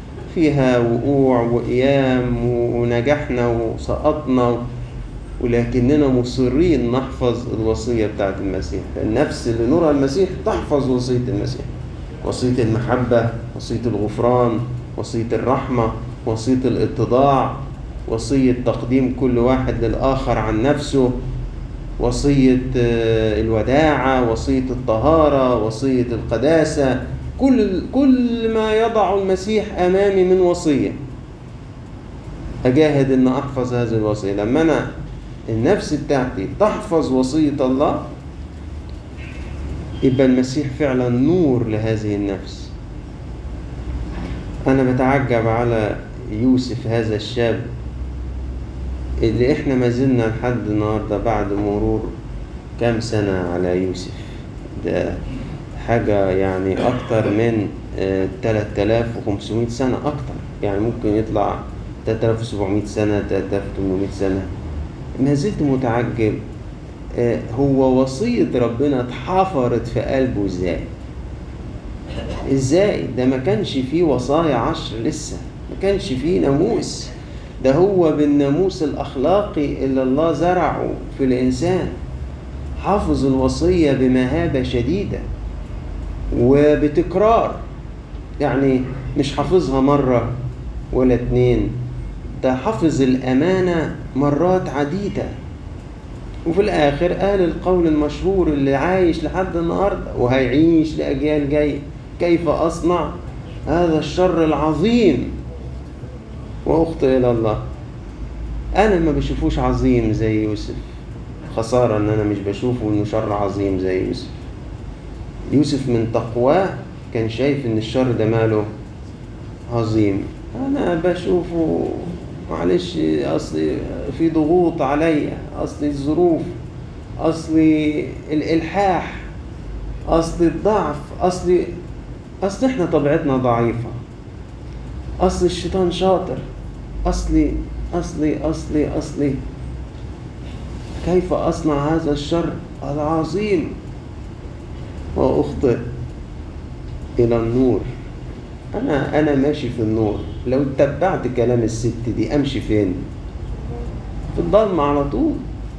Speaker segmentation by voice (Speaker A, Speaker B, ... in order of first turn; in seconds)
Speaker A: 0.3-4.6, 5.4-11.7, 12.2-21.1, 22.0-31.0, 32.6-34.9, 35.5-38.0, 40.0-42.7, 44.7-47.7, 49.2-52.1, 52.8-55.2, 55.8-64.5, 65.2-66.4, 67.1-70.9, 72.5-81.9, 82.8-85.2, 86.3-87.6, 88.4-90.3, 90.9-91.7, 92.4-95.3, 96.5-103.1, 103.7-105.3, 106.7-107.6, 108.8-110.9, 111.5-114.3, 115.5-118.7, 119.7-126.5, 127.2-129.3, 130.1-131.7, 132.4-134.0, 135.2-136.4, 137.1-139.4, 141.0-143.7, 145.2-145.8, 147.2-147.9, 148.7-153.0, 154.3-155.4